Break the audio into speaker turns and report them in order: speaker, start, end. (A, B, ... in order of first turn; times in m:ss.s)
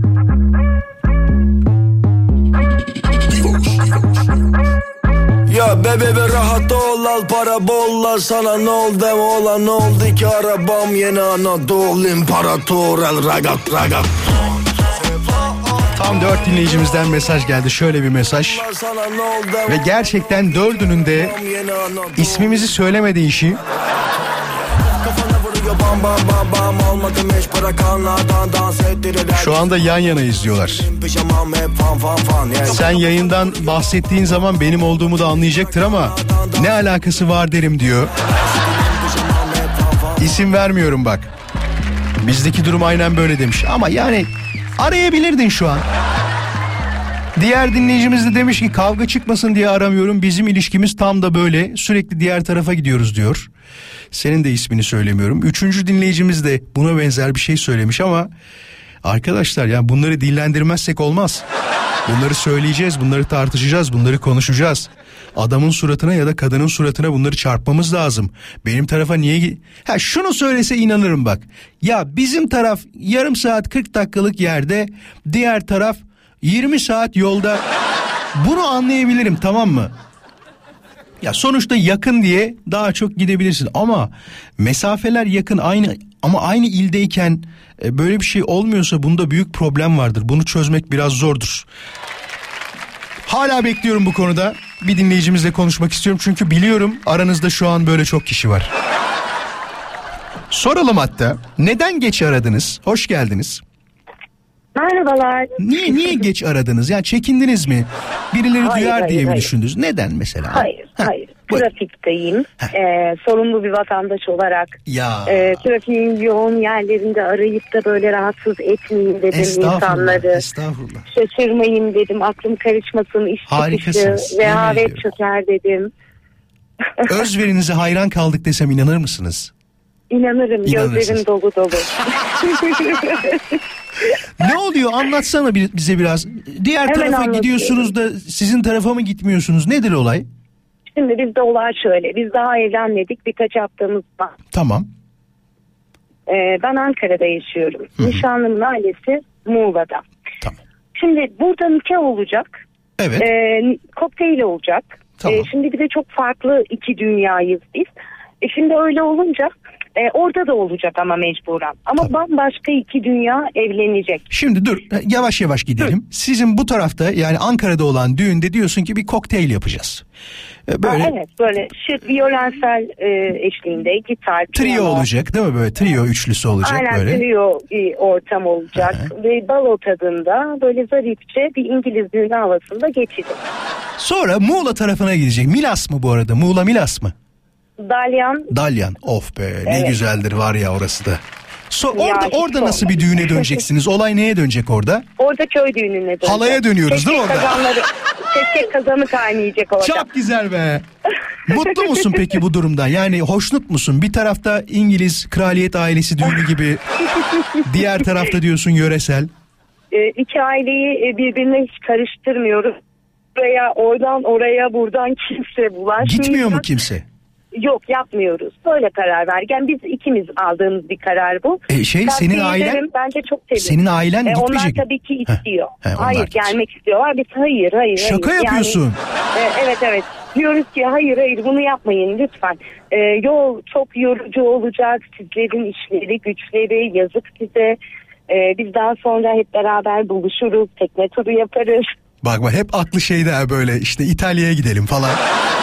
0:03.3-0:03.9 A
0:05.5-0:17.0 A
0:15.9-0:18.6 B
0:18.3-0:22.7 A
0:19.6-0:21.4 B
0:22.1-0:23.6 B
0:24.7-0:29.7 A
0:29.3-0:30.9 B
0:30.8-0:36.7 A
0:32.6-0:38.1 B
0:38.2-0:40.4 A
0:40.2-0:41.3 B
0:42.2-0:45.9 B
0:47.4-0:53.5 B
0:54.1-0:58.3 B
0:59.0-1:01.4 B
1:02.0-1:17.6 B
1:18.3-1:19.9 B
1:21.2-1:31.7 B
1:33.3-1:38.7 B
1:40.5-1:43.6 B
1:44.7-1:46.2 C
1:45.6-1:51.6 B
1:48.6-1:49.5 C
1:50.5-2:00.4 C
1:54.8-1:55.6 B
1:59.3-2:01.0 B
2:01.1-2:05.9 C
2:03.5-2:05.1 B
2:07.0-2:09.5 B
2:10.1-2:13.6 C
2:10.6-2:11.2 B
2:14.4-2:20.3 B
2:16.8-2:17.9 C
2:20.9-2:24.3 C
2:24.5-2:24.9 B
2:26.3-2:30.0 C
2:28.0-2:28.2 B
2:31.0-2:32.5 C
2:33.0-2:33.3 B
2:33.2-2:37.9 C
2:35.2-2:35.5 B
2:38.4-2:44.3 C
2:44.3-2:50.0 B
2:50.7-2:51.1 B
2:50.8-2:55.0 C
2:54.5-2:57.2 B
2:56.6-3:03.4 C
2:58.7-2:59.1 B
3:04.0-3:07.1 B
3:07.8-3:08.5 C
3:08.5-3:15.0 B
3:09.7-3:10.0 C
3:11.9-3:13.6 C
3:15.2-3:20.1 C
3:16.2-3:17.6 B
3:19.8-3:20.8 B
3:21.5-3:26.8 B
3:21.9-3:22.2 C
3:27.6-3:29.3 B
3:29.9-3:32.8 C
3:33.3-3:36.6 C
3:36.0-3:37.0 B
3:37.5-3:48.8 C
3:41.7-3:42.8 B
3:43.5-3:46.5 B
3:48.0-3:49.0 B
3:49.3-3:57.8 C
3:58.3-4:01.9 C
4:02.2-4:05.2 B